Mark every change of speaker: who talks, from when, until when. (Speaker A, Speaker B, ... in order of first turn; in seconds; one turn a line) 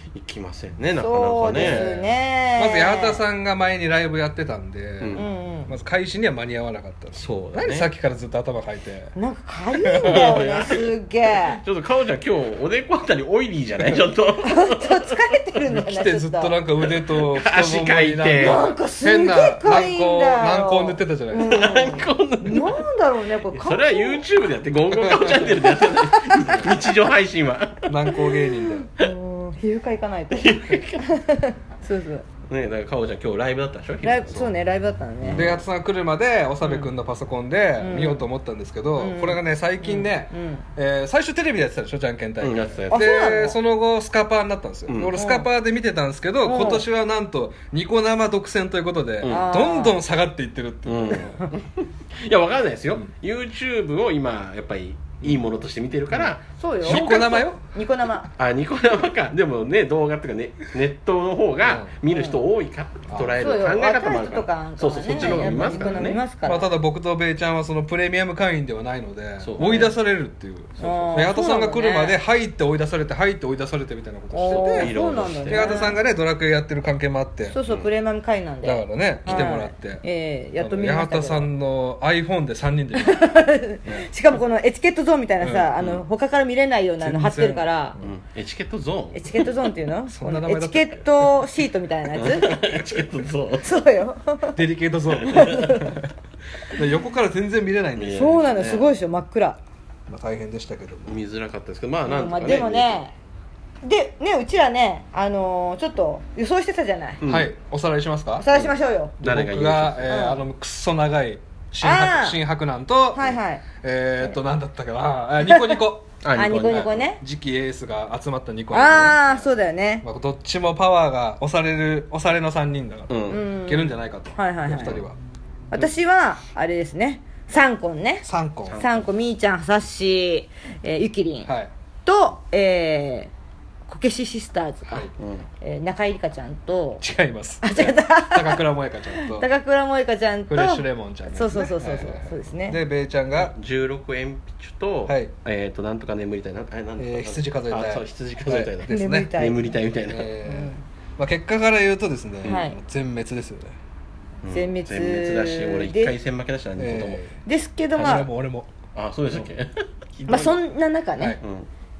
Speaker A: 0.1-2.0
Speaker B: 1.0-3.2
Speaker C: 1.5-2.0
Speaker C: 2.6-9.1
Speaker A: 5.0-5.2
Speaker B: 5.1-5.7
Speaker A: 7.1-7.9
Speaker B: 9.2-11.6
Speaker C: 9.7-10.4
Speaker A: 10.0-10.9
Speaker A: 11.5-15.2
Speaker B: 14.4-16.6
Speaker C: 15.7-21.6
Speaker A: 16.9-18.6
Speaker B: 18.4-24.2
Speaker A: 21.4-22.8
Speaker A: 23.5-28.4
Speaker C: 24.9-25.5
Speaker B: 25.8-26.6
Speaker C: 27.9-28.9
Speaker B: 29.0-32.2
Speaker A: 30.3-31.1
Speaker A: 32.5-34.5
Speaker B: 34.0-35.6
Speaker A: 35.2-35.6
Speaker C: 35.3-51.4
Speaker B: 36.6-36.9
Speaker B: 37.8-38.3
Speaker B: 39.0-40.6
Speaker A: 42.4-43.1
Speaker B: 42.9-43.6
Speaker A: 44.9-45.1
Speaker B: 45.1-45.5
Speaker B: 46.4-46.9
Speaker B: 49.3-50.0
Speaker A: 50.9-57.5
Speaker C: 56.1-57.6
Speaker B: 56.6-58.3
Speaker A: 58.4-66.2
Speaker C: 61.6-61.9
Speaker B: 62.1-62.4
Speaker C: 63.1-63.4
Speaker B: 63.4-66.7
Speaker C: 65.1-75.0
Speaker A: 69.4-69.9
Speaker B: 69.6-69.9
Speaker A: 70.8-71.2
Speaker B: 70.8-72.2
Speaker B: 74.3-76.0
Speaker A: 74.5-75.9
Speaker C: 75.5-77.6
Speaker B: 77.5-81.5
Speaker C: 78.6-80.0
Speaker C: 80.6-83.3
Speaker B: 83.0-88.0
Speaker C: 85.4-85.7
Speaker C: 87.0-88.1
Speaker A: 88.0-89.5
Speaker B: 89.1-92.6
Speaker C: 90.1-91.4
Speaker A: 92.1-93.8
Speaker B: 93.6-94.6
Speaker C: 94.5-96.1
Speaker A: 95.2-95.8
Speaker B: 95.2-96.0
Speaker C: 96.7-98.7
Speaker A: 98.0-98.9
Speaker B: 98.1-99.6
Speaker C: 100.1-101.2
Speaker A: 101.1-103.0
Speaker B: 102.1-103.1
Speaker B: 103.8-107.2
Speaker A: 107.2-107.5
Speaker C: 107.3-108.5
Speaker B: 108.4-109.1
Speaker A: 108.5-110.1
Speaker C: 109.2-119.5
Speaker B: 110.1-110.4
Speaker B: 111.8-112.4
Speaker B: 113.1-113.6
Speaker B: 115.5-115.8
Speaker A: 116.2-117.1
Speaker B: 116.3-117.2
Speaker B: 118.7-120.0
Speaker C: 120.0-125.2
Speaker A: 123.1-123.4
Speaker B: 123.3-125.0
Speaker B: 125.7-131.5
Speaker C: 128.2-128.8
Speaker A: 128.7-129.1
Speaker B: 132.1-133.3
Speaker B: 133.9-135.1
Speaker A: 135.2-135.5
Speaker B: 135.6-137.0
Speaker C: 137.0-139.5
Speaker B: 137.6-142.8
Speaker C: 140.5-143.5
Speaker A: 143.4-150.3
Speaker C: 147.0-149.3
Speaker B: 148.9-149.7
Speaker C: 150.1-153.8
Speaker B: 150.4-150.8
Speaker B: 152.5-152.8
Speaker A: 154.4-157.2
Speaker B: 154.5-156.1
Speaker C: 156.8-157.3
Speaker B: 157.4-158.3
Speaker C: 158.0-158.7
Speaker A: 158.9-160.6
Speaker B: 160.3-161.4
Speaker A: 161.4-161.7